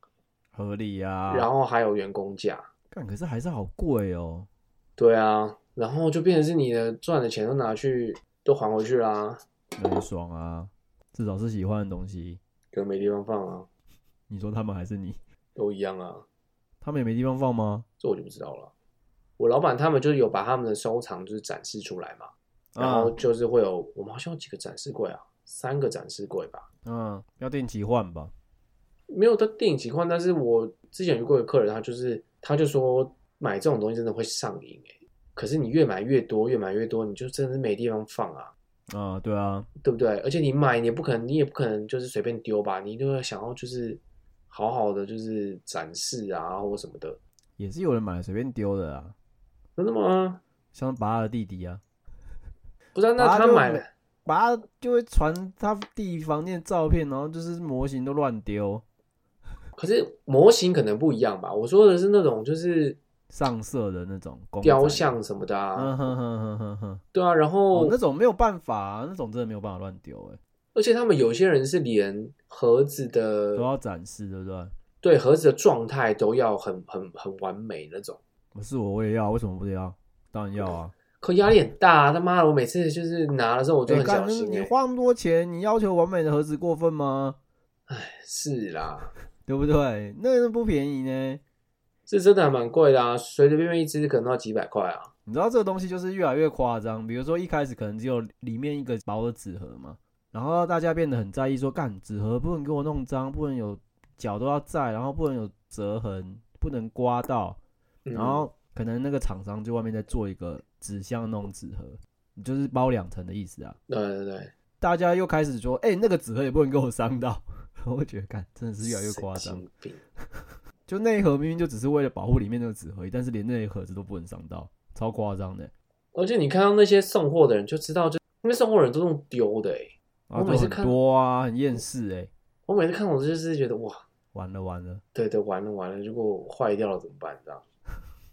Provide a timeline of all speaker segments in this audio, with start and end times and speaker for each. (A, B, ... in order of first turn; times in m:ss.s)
0:00.5-0:01.5 A
0:01.3-0:02.7 B
0:02.9-0:04.5 A
0:05.0-0:09.4 B
0:09.8-0:12.4 A
0:12.7-0:13.7 B
0:14.3-0:15.2 A
0:15.6-0:16.2 B
0:16.8-0:17.9 A
0:18.0-0:18.7 B
0:19.4-0:26.7 B
0:22.8-0:23.2 A
0:26.8-0:28.3 A
0:29.1-0:38.5 B
0:38.9-0:39.7 A
0:39.8-0:47.2 B
0:47.6-0:49.2 A
0:49.8-0:50.4 B
0:50.7-0:51.8 A
0:53.0-0:53.9 B
0:53.2-0:58.8 A
0:59.8-1:03.0 B
1:03.3-1:05.1 A
1:04.6-1:06.1 B
1:05.8-1:07.0 A
1:07.1-1:08.0 B
1:07.7-1:10.4 A
1:10.8-1:13.7 B
1:13.6-1:14.7 A
1:15.0-1:18.2 B
1:18.5-1:21.0 A
1:21.2-1:24.7 B
1:23.9-1:27.4 A
1:27.9-1:29.1 B
1:29.5-1:31.4 A
1:32.1-1:35.1 B
1:35.3-1:47.6 A
1:48.1-1:48.5 B
1:48.1-1:53.8 A
1:53.9-1:54.5 B
1:54.8-1:59.6 A
1:58.8-2:00.0 B
2:00.2-2:05.7 A
2:06.1-2:11.0 B
2:10.3-2:12.3 A
2:12.7-2:14.0 B
2:14.3-2:15.0 A
2:15.1-2:17.6 B